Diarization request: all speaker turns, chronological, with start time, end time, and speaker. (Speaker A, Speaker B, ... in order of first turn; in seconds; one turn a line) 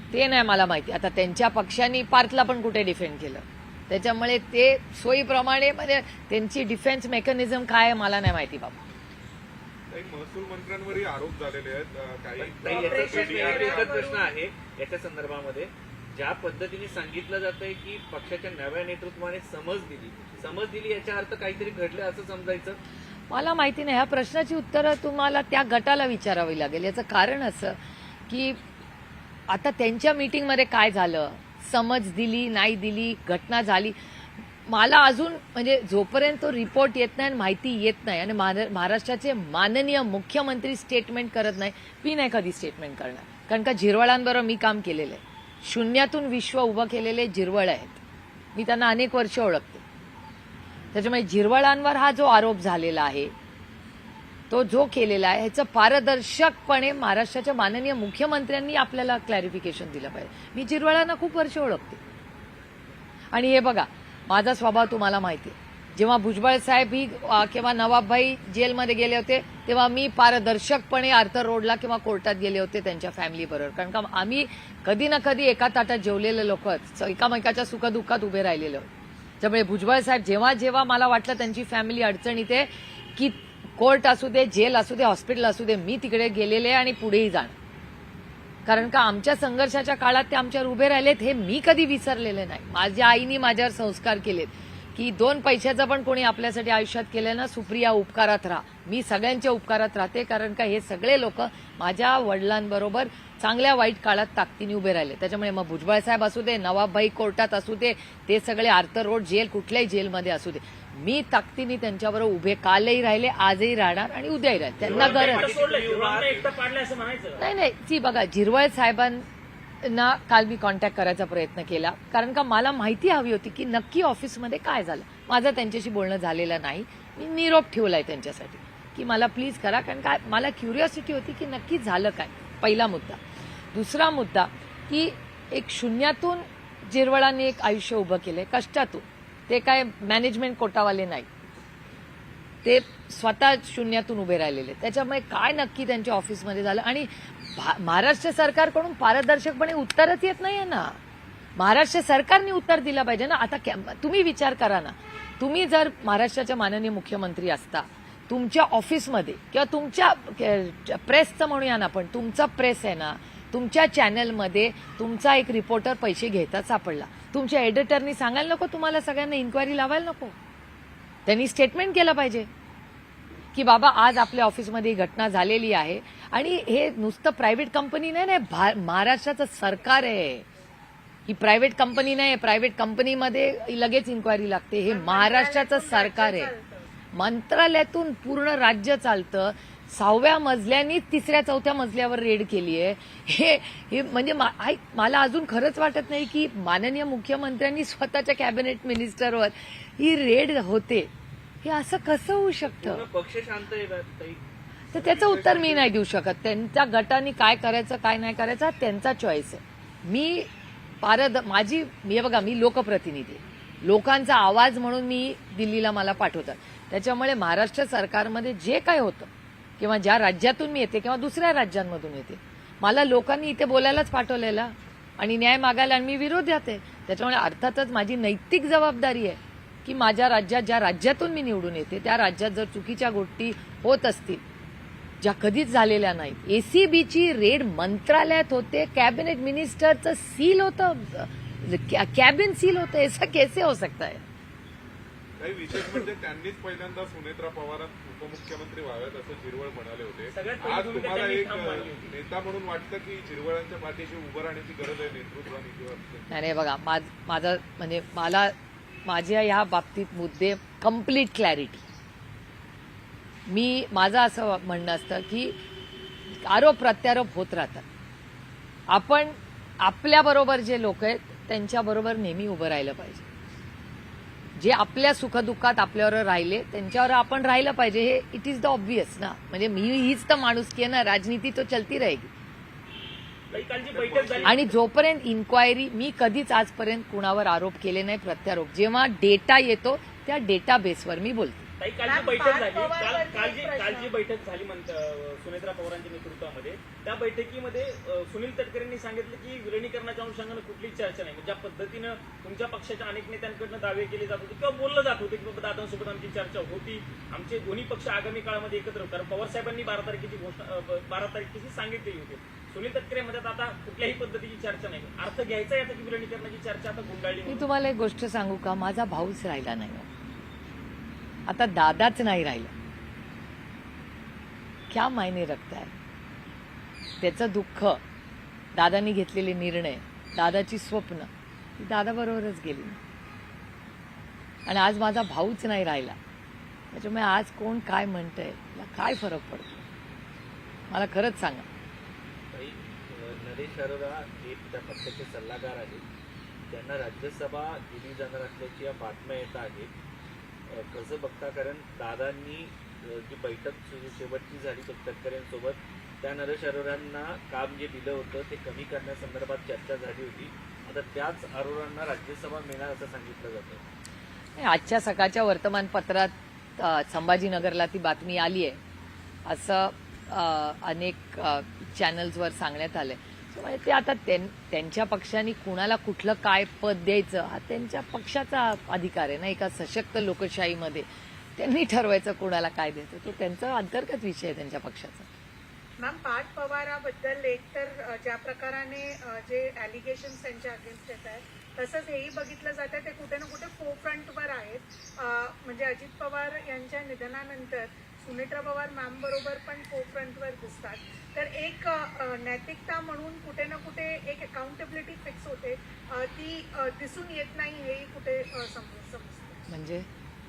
Speaker A: 0.1-8.8
Speaker B: 9.9-14.0
Speaker C: 12.4-22.8
Speaker D: 12.7-14.3
Speaker A: 23.3-27.8
Speaker A: 28.3-28.6
Speaker A: 29.5-34.0
Speaker A: 34.6-48.0
Speaker A: 48.5-49.8
Speaker A: 50.9-53.3
Speaker A: 54.5-62.0
Speaker A: 63.3-78.9
Speaker A: 79.4-87.5
Speaker A: 88.7-115.4
Speaker C: 114.8-116.5
Speaker E: 114.8-117.4
Speaker A: 117.4-119.2
Speaker A: 119.8-133.2
Speaker A: 133.7-141.3
Speaker A: 142.6-151.0
Speaker A: 151.6-170.3
Speaker A: 171.2-172.5
Speaker A: 173.5-180.4
Speaker A: 181.3-186.5
Speaker D: 184.9-186.9
Speaker A: 187.1-201.1
Speaker A: 201.6-203.0
Speaker C: 202.6-204.4
Speaker A: 204.9-210.5
Speaker C: 204.9-205.9
Speaker A: 211.0-234.4
Speaker A: 235.2-244.2
Speaker B: 245.4-256.3
Speaker E: 250.3-252.1
Speaker A: 256.3-261.9
Speaker A: 263.5-265.6
Speaker A: 266.3-267.8
Speaker A: 268.9-273.2
Speaker A: 274.6-282.3
Speaker E: 283.5-284.6
Speaker B: 283.9-284.6
Speaker A: 284.4-291.7
Speaker E: 291.8-317.6
Speaker D: 292.0-294.1
Speaker A: 317.5-320.1
Speaker A: 321.5-322.7
Speaker A: 324.9-325.9
Speaker A: 327.2-328.0
Speaker A: 328.7-333.0
Speaker A: 334.6-336.2
Speaker A: 336.9-339.8
Speaker A: 340.9-341.6
Speaker C: 342.5-346.0
Speaker C: 346.7-349.9
Speaker C: 350.7-363.8
Speaker A: 364.6-368.8
Speaker A: 369.4-385.3
Speaker D: 386.0-409.6
Speaker A: 409.7-410.1